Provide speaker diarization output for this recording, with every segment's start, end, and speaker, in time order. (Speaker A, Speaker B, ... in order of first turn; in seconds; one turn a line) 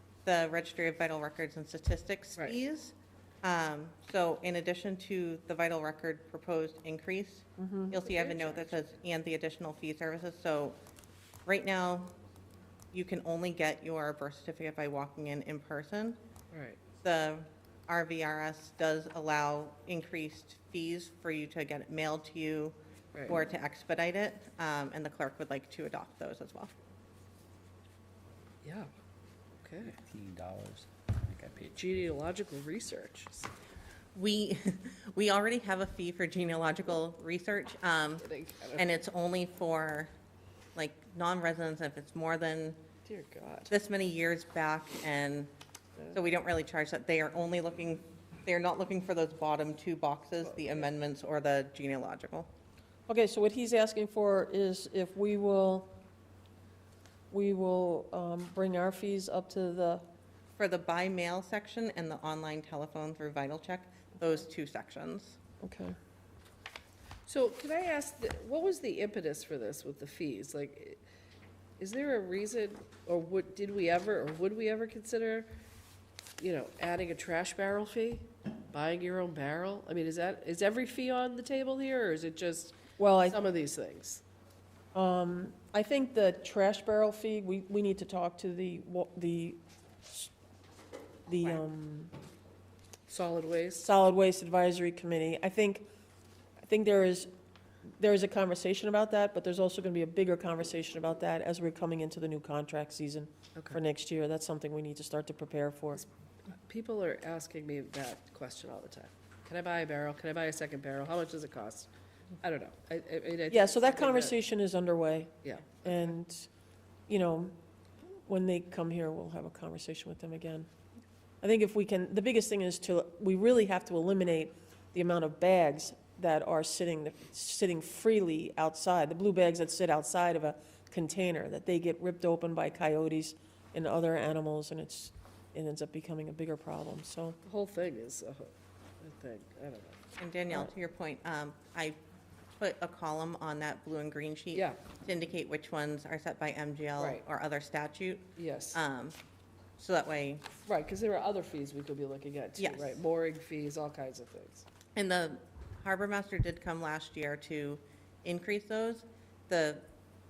Speaker A: 0.2-10.8
Speaker B: 7.6-8.0
Speaker C: 7.9-8.8
Speaker A: 11.4-12.1
Speaker A: 12.9-16.2
Speaker C: 16.5-16.8
Speaker A: 17.0-22.7
Speaker C: 23.1-23.4
Speaker A: 23.3-26.7
Speaker C: 28.6-28.9
Speaker C: 29.6-29.9
Speaker D: 29.8-32.0
Speaker C: 31.7-33.5
Speaker A: 34.1-38.2
Speaker C: 38.2-38.9
Speaker A: 38.8-40.1
Speaker A: 40.7-42.8
Speaker C: 43.0-43.7
Speaker A: 43.7-45.5
Speaker A: 46.1-52.5
Speaker C: 50.4-50.9
Speaker B: 53.1-55.9
Speaker B: 57.3-60.0
Speaker A: 60.6-65.4
Speaker B: 65.6-65.9
Speaker C: 67.3-71.0
Speaker C: 71.8-75.5
Speaker C: 76.4-84.2
Speaker B: 83.0-83.4
Speaker B: 84.9-90.3
Speaker B: 91.3-92.1
Speaker C: 93.1-93.9
Speaker B: 93.8-95.8
Speaker B: 96.6-97.3
Speaker B: 98.0-106.0
Speaker C: 106.5-111.9
Speaker C: 112.4-114.3
Speaker B: 113.5-116.5
Speaker C: 115.4-115.8
Speaker B: 117.1-117.5
Speaker B: 118.2-120.7
Speaker B: 121.4-137.4
Speaker C: 137.4-139.9
Speaker A: 140.2-142.0
Speaker A: 142.6-149.1
Speaker C: 144.5-144.8
Speaker C: 147.0-147.2
Speaker C: 148.3-148.8
Speaker A: 149.8-150.4
Speaker C: 150.7-154.6
Speaker A: 152.6-153.0
Speaker A: 154.9-159.8